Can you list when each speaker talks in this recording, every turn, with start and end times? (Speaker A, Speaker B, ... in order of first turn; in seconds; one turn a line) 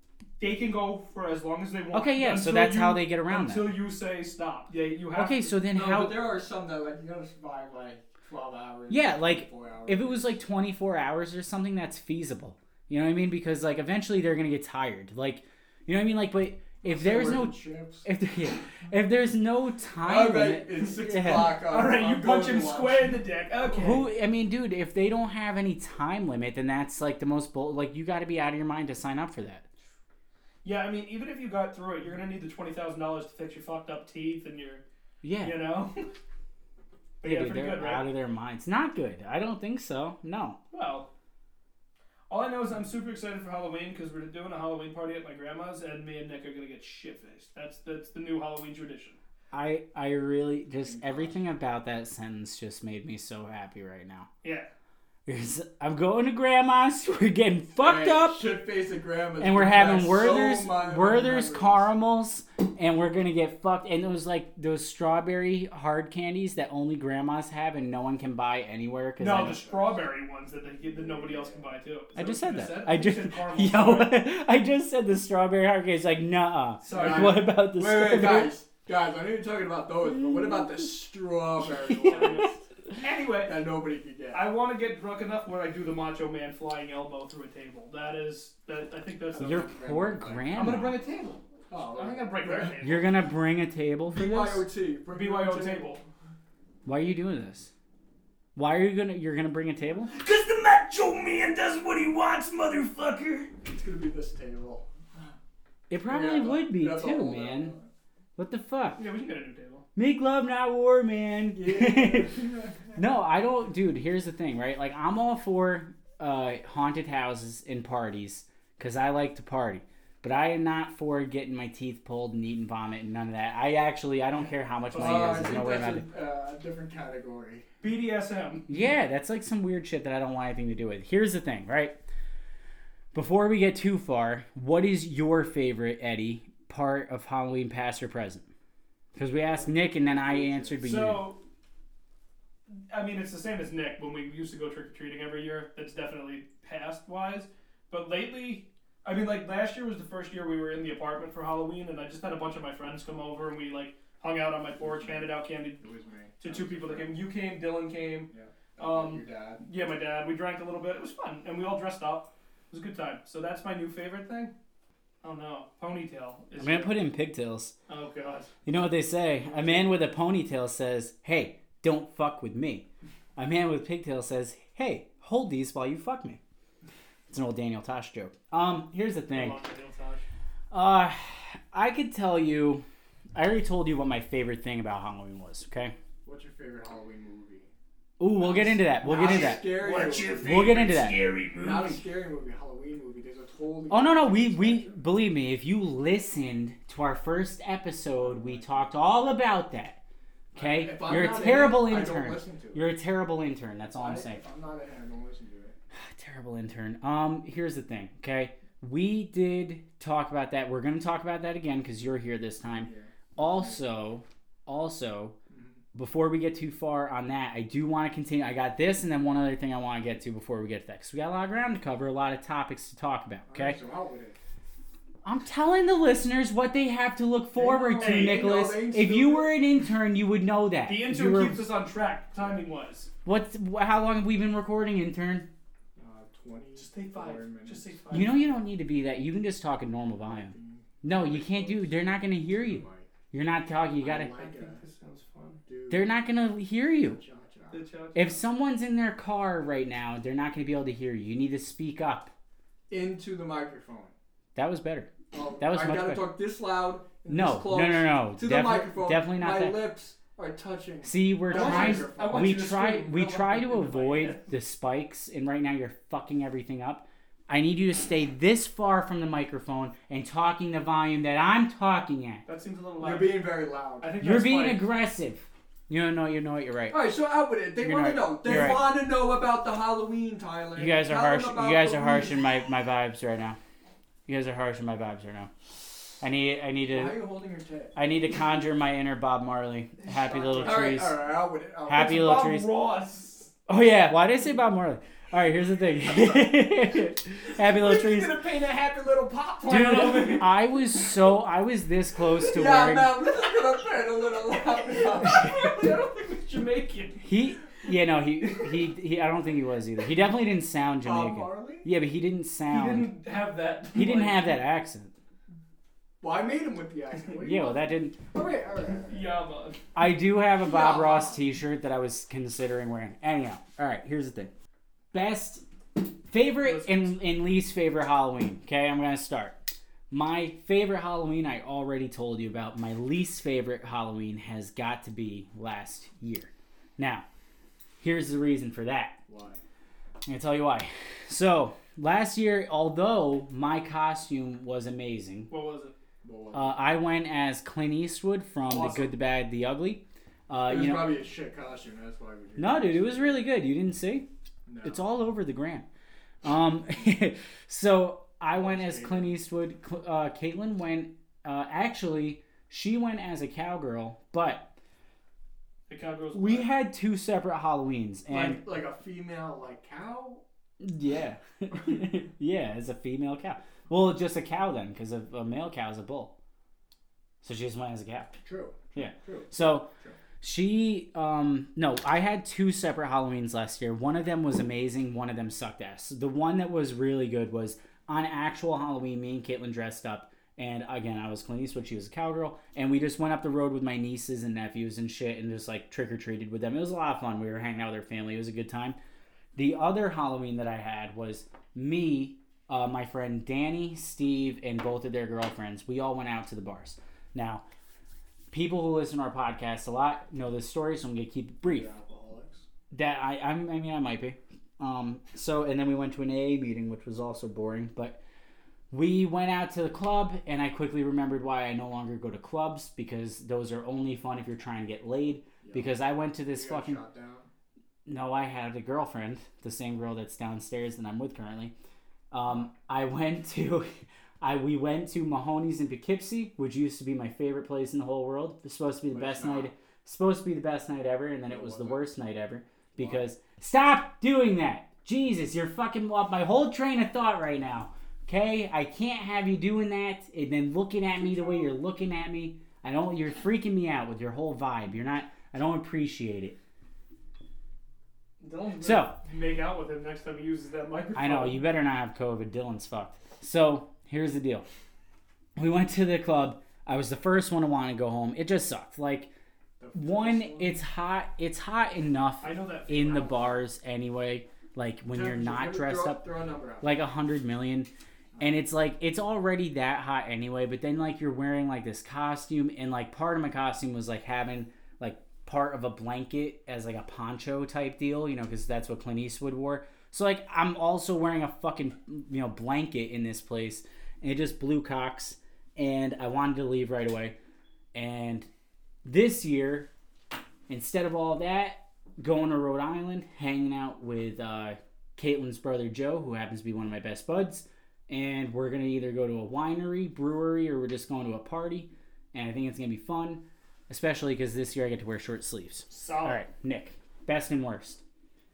Speaker A: 0.4-5.6
Speaker B: 1.9-3.8
Speaker B: 5.1-6.2
Speaker C: 5.7-10.4
Speaker B: 8.9-21.6
Speaker C: 16.8-18.1
Speaker C: 20.0-23.2
Speaker A: 21.5-24.1
Speaker B: 23.7-29.6
Speaker A: 30.6-34.8
Speaker B: 35.2-35.6
Speaker A: 35.4-36.1
Speaker A: 37.2-38.1
Speaker B: 37.2-40.6
Speaker A: 40.7-41.1
Speaker A: 42.3-49.2
Speaker B: 49.5-54.3
Speaker C: 50.7-51.4
Speaker A: 54.4-54.7
Speaker B: 55.3-58.5
Speaker C: 57.8-61.9
Speaker B: 59.4-69.6
Speaker A: 69.2-74.2
Speaker C: 69.4-70.0
Speaker C: 70.8-71.8
Speaker B: 72.2-78.6
Speaker A: 76.8-77.5
Speaker C: 76.9-82.5
Speaker A: 82.0-83.6
Speaker C: 83.4-84.5
Speaker A: 84.3-89.7
Speaker C: 89.3-90.6
Speaker B: 89.4-91.0
Speaker A: 90.5-91.4
Speaker C: 91.7-92.8
Speaker A: 92.0-93.2
Speaker B: 92.8-94.7
Speaker C: 94.1-96.0
Speaker A: 95.1-96.0
Speaker B: 96.9-97.7
Speaker B: 98.5-100.1
Speaker A: 100.1-103.5
Speaker C: 103.7-105.3
Speaker B: 105.9-107.7
Speaker C: 106.1-107.9
Speaker B: 108.4-109.0
Speaker A: 109.0-109.8
Speaker B: 110.0-112.3
Speaker C: 111.5-113.0
Speaker B: 113.0-126.1
Speaker A: 124.9-125.6
Speaker C: 124.9-127.7
Speaker A: 127.8-128.7
Speaker B: 128.7-132.0
Speaker B: 133.1-138.5
Speaker B: 139.2-141.3
Speaker C: 139.4-140.8
Speaker A: 140.8-141.4
Speaker A: 142.7-155.8
Speaker C: 154.8-157.2
Speaker A: 156.4-164.5
Speaker C: 158.3-159.7
Speaker A: 165.2-167.0
Speaker B: 166.6-167.7
Speaker A: 167.9-168.5
Speaker B: 168.7-176.4
Speaker C: 169.4-170.0
Speaker B: 177.3-179.6
Speaker A: 179.3-180.2
Speaker B: 180.7-182.8
Speaker B: 183.3-185.9
Speaker C: 186.2-187.7
Speaker B: 188.2-189.8
Speaker C: 188.3-190.8
Speaker A: 189.1-192.0
Speaker B: 190.4-191.2
Speaker C: 191.5-195.0
Speaker B: 193.9-200.0
Speaker C: 198.2-198.8
Speaker C: 200.5-202.9
Speaker B: 200.5-204.4
Speaker C: 203.9-205.8
Speaker B: 205.9-215.3
Speaker C: 212.7-213.8
Speaker C: 215.5-215.8
Speaker B: 215.9-223.8
Speaker C: 223.5-224.4
Speaker B: 225.2-231.7
Speaker C: 227.6-229.6
Speaker A: 228.0-228.5
Speaker A: 230.8-233.1
Speaker B: 233.2-235.5
Speaker C: 236.0-238.6
Speaker A: 236.8-238.4
Speaker B: 238.1-244.3
Speaker C: 240.2-243.1
Speaker C: 244.0-244.8
Speaker A: 244.4-245.6
Speaker C: 245.7-246.2
Speaker B: 245.9-247.2
Speaker C: 246.9-247.8
Speaker A: 247.7-248.4
Speaker B: 248.2-252.3
Speaker C: 252.9-254.1
Speaker B: 254.6-256.3
Speaker C: 255.3-262.6
Speaker B: 257.3-259.8
Speaker B: 261.0-272.4
Speaker A: 261.5-264.5
Speaker A: 272.5-273.4
Speaker C: 273.0-274.1
Speaker A: 274.0-274.9
Speaker B: 274.2-277.0
Speaker C: 276.9-282.5
Speaker B: 277.8-278.9
Speaker B: 280.8-283.6
Speaker B: 284.3-285.5
Speaker B: 286.2-287.2
Speaker C: 286.9-288.0
Speaker B: 287.9-291.2
Speaker C: 290.1-292.2
Speaker A: 290.2-291.0
Speaker B: 291.9-292.7
Speaker A: 291.9-293.5
Speaker B: 293.7-298.4
Speaker C: 297.6-300.5
Speaker B: 299.7-303.2
Speaker A: 299.7-300.5
Speaker C: 302.2-305.7
Speaker A: 304.6-307.2
Speaker B: 307.2-313.1
Speaker A: 308.5-308.8
Speaker C: 311.0-311.9
Speaker A: 312.7-314.6
Speaker B: 313.9-315.1
Speaker C: 316.2-319.4
Speaker B: 317.4-318.2
Speaker A: 319.1-319.8
Speaker B: 319.9-324.5
Speaker C: 320.6-321.5
Speaker B: 325.1-325.6
Speaker B: 326.3-337.2
Speaker A: 326.6-327.1
Speaker B: 338.0-339.2
Speaker C: 339.3-339.6
Speaker B: 340.3-345.5
Speaker A: 345.5-345.9
Speaker C: 346.2-346.9
Speaker B: 346.5-351.1
Speaker C: 348.7-349.1
Speaker C: 350.7-353.5
Speaker B: 352.6-354.3
Speaker C: 354.7-355.0
Speaker B: 354.8-355.9
Speaker B: 356.4-364.7
Speaker C: 358.5-359.4
Speaker A: 365.9-366.7
Speaker B: 366.3-368.6
Speaker C: 368.3-370.4
Speaker B: 370.8-376.3
Speaker B: 377.4-378.3
Speaker C: 378.4-380.2
Speaker B: 378.9-379.9
Speaker B: 380.4-399.0
Speaker B: 399.6-407.6
Speaker B: 408.5-411.9
Speaker C: 411.6-412.7
Speaker B: 412.9-418.2
Speaker B: 418.9-427.0
Speaker C: 425.6-426.0
Speaker C: 426.5-427.5
Speaker B: 428.1-431.7
Speaker B: 432.3-456.6
Speaker C: 439.1-439.7
Speaker C: 441.5-442.1
Speaker C: 443.0-443.3
Speaker C: 451.2-451.7
Speaker A: 458.4-461.6
Speaker B: 458.8-459.2
Speaker B: 461.1-464.7
Speaker B: 465.6-469.3
Speaker C: 469.8-470.8
Speaker B: 469.9-476.2
Speaker A: 472.4-473.6
Speaker C: 475.1-477.0
Speaker B: 476.8-497.4
Speaker B: 497.9-498.5
Speaker B: 499.0-499.9
Speaker B: 500.7-518.0
Speaker A: 515.9-516.4